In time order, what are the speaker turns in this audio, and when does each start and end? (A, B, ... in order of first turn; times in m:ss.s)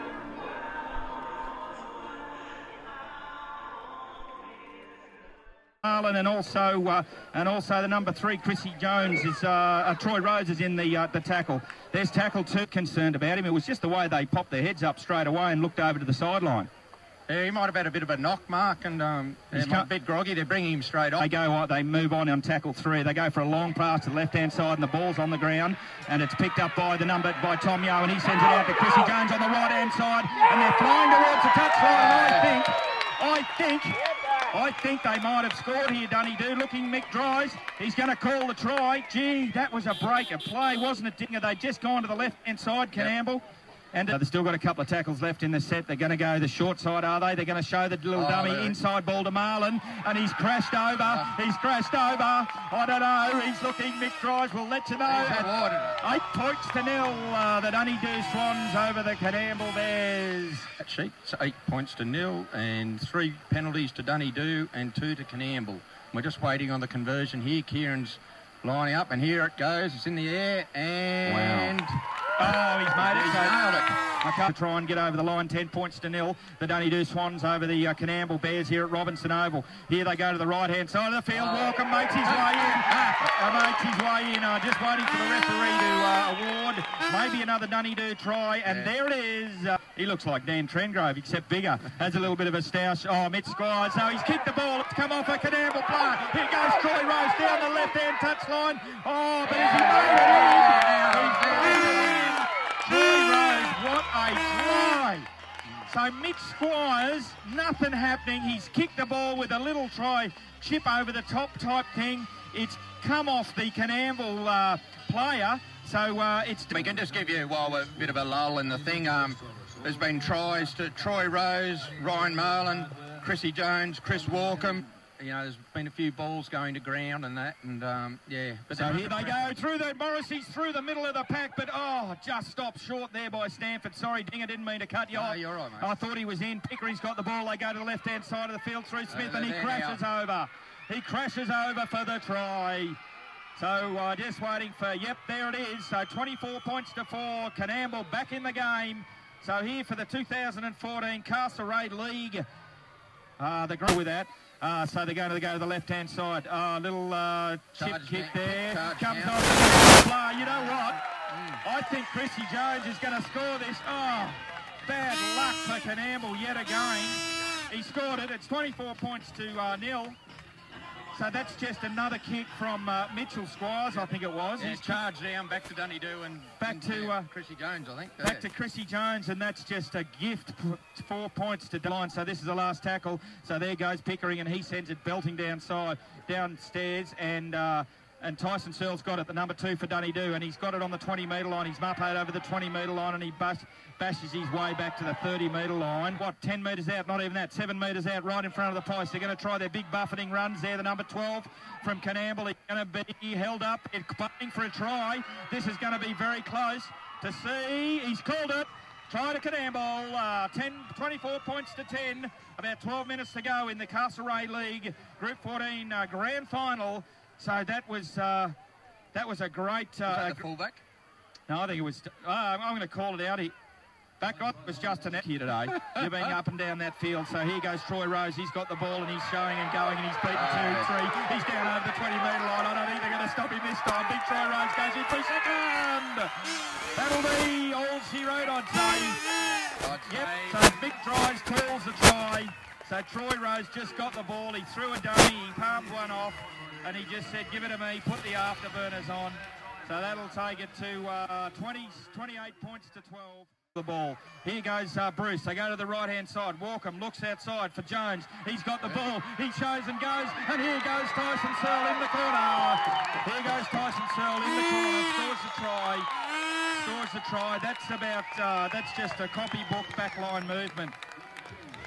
0:05.8-0:16.7 A
0:17.3-0:21.2 B
0:19.5-0:19.9 A
0:21.2-0:34.0 A
0:31.9-0:32.5 B
0:34.5-1:00.7 A
0:48.1-0:48.8 B
0:55.1-0:56.0 B
1:00.8-1:12.0 B
1:11.3-1:11.7 A
1:12.4-1:13.6 A
1:13.0-1:14.0 B
1:14.2-1:45.3 A
1:21.3-1:23.1 B
1:39.4-1:42.4 B
1:45.9-1:57.0 A
1:56.7-2:09.5 B
2:08.7-2:23.0 A
2:15.1-2:15.9 B
2:19.1-2:20.0 B
2:23.6-2:32.4 A
2:33.4-2:41.0 A
2:37.7-2:39.8 B
2:41.3-2:41.6 B
2:41.6-2:50.2 A
2:51.1-2:55.0 A
2:54.6-2:58.5 B
2:56.6-2:57.3 A
2:58.2-3:38.5 A
3:39.1-3:40.4 A
3:40.0-3:40.8 B
3:41.5-3:43.5 A
3:44.2-3:56.3 A
3:50.3-3:50.9 B
3:56.9-3:59.2 A
3:59.6-4:00.6 B
4:00.0-4:26.1 A
4:26.7-4:31.0 A